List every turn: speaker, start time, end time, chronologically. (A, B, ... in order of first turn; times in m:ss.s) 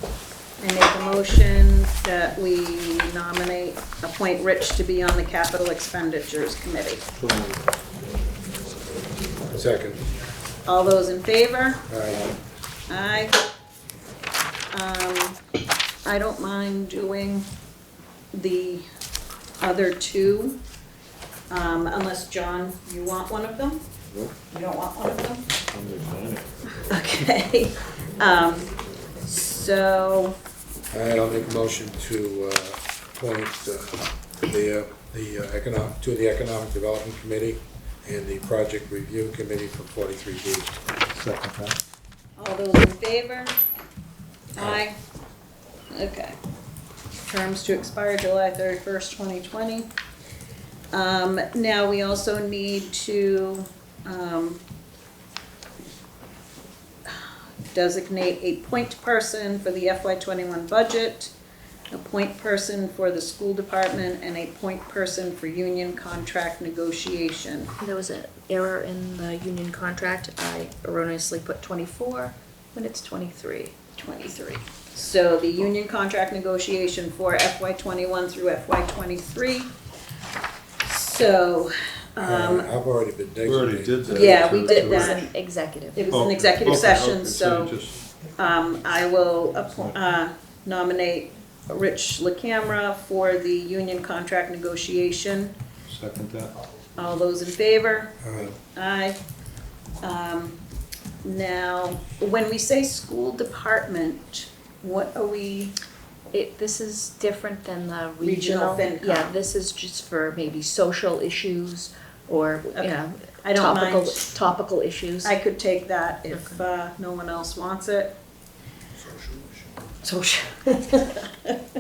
0:00.6-0:07.1 A
0:07.2-0:07.7 B
0:09.5-0:10.0 C
0:10.7-0:11.8 A
0:11.9-0:12.2 C
0:12.9-0:13.4 A
0:14.7-0:15.4 A
0:16.0-0:17.5 A
0:18.3-0:18.8 A
0:19.6-0:20.6 A
0:21.5-0:23.9 A
0:24.5-0:25.5 A
0:25.7-0:26.5 B
0:26.9-0:28.7 A
0:29.2-0:30.4 A
0:30.9-0:40.8 C
0:41.1-0:41.8 B
0:42.4-0:43.6 A
0:44.6-0:45.0 A
0:45.9-0:46.4 A
0:47.3-0:49.9 A
0:50.9-0:54.6 A
0:57.7-1:01.3 A
1:01.9-1:07.7 A
1:07.8-1:13.8 D
1:14.0-1:19.7 A
1:20.8-1:22.7 A
1:22.2-1:24.8 C
1:23.4-1:25.2 B
1:24.1-1:25.3 A
1:24.7-1:26.1 D
1:25.9-1:27.8 A
1:26.1-1:28.1 B
1:28.4-1:35.6 A
1:35.9-1:36.6 B
1:37.0-1:38.2 A
1:38.2-1:38.5 C
1:38.7-1:39.2 A
1:40.0-1:40.6 A
1:41.2-1:45.7 A
1:46.3-1:55.3 D
1:48.2-1:49.4 A
1:52.8-1:54.2 A
1:55.2-1:58.2 A
1:56.3-1:56.6 D
2:00.0-2:01.2 D